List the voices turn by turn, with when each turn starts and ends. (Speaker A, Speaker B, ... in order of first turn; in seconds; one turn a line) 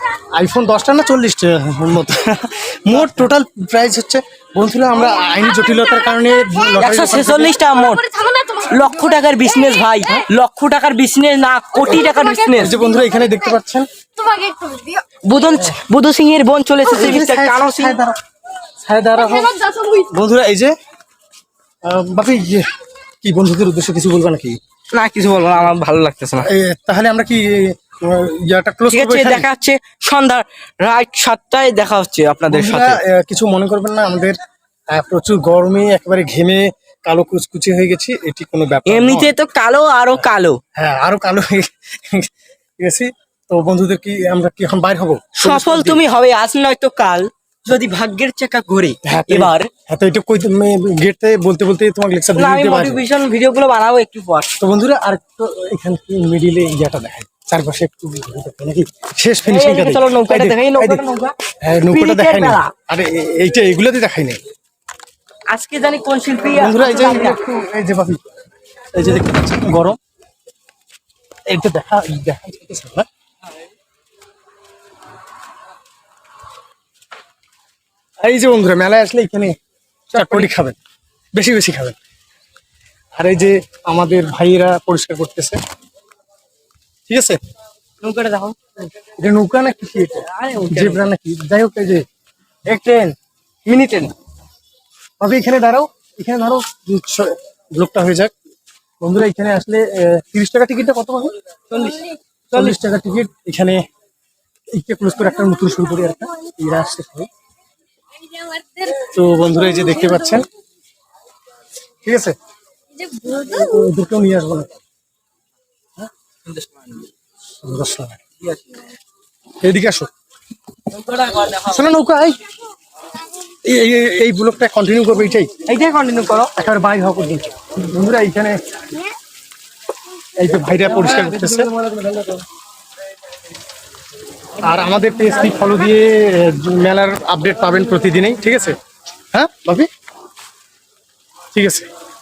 Speaker A: 0.3-7.6
Speaker B: 6.8-12.8
Speaker C: 8.1-8.6
Speaker A: 12.6-13.9
Speaker C: 14.2-15.0
Speaker B: 15.2-18.0
Speaker A: 16.8-18.2
Speaker A: 18.8-20.7
Speaker C: 19.6-20.1
Speaker A: 21.8-22.6
Speaker A: 23.2-24.6
Speaker B: 24.9-26.5
Speaker A: 26.4-29.5
Speaker B: 28.9-33.0
Speaker A: 32.5-34.4
Speaker A: 34.9-39.3
Speaker B: 38.9-40.6
Speaker A: 40.7-46.0
Speaker B: 45.4-49.7
Speaker A: 49.0-53.0
Speaker B: 52.4-54.5
Speaker A: 54.6-61.0
Speaker B: 59.5-61.3
Speaker A: 61.6-64.4
Speaker B: 61.9-62.7
Speaker B: 65.5-67.4
Speaker A: 66.5-68.3
Speaker A: 68.9-70.0
Speaker A: 71.5-73.1
Speaker A: 78.2-79.5
Speaker B: 80.1-80.5
Speaker A: 80.1-80.8
Speaker A: 81.3-82.0
Speaker A: 83.2-85.6
Speaker A: 87.1-87.4
Speaker B: 88.0-88.6
Speaker A: 89.2-92.0
Speaker B: 90.2-91.0
Speaker B: 92.7-94.1
Speaker A: 95.2-98.3
Speaker A: 99.0-101.3
Speaker B: 101.7-102.8
Speaker A: 102.5-103.8
Speaker A: 104.7-107.3
Speaker C: 108.4-108.8
Speaker A: 108.9-110.5
Speaker A: 112.0-112.3
Speaker C: 113.0-113.5
Speaker A: 113.2-114.8
Speaker B: 116.5-117.0
Speaker A: 117.6-118.2
Speaker B: 118.4-118.8
Speaker A: 119.6-120.1
Speaker B: 120.9-121.8
Speaker A: 121.6-122.4
Speaker A: 123.6-125.5
Speaker B: 125.6-126.5
Speaker A: 126.5-128.6
Speaker A: 130.4-131.7
Speaker B: 130.8-132.4
Speaker A: 134.6-138.8
Speaker A: 139.3-139.9
Speaker A: 141.5-141.9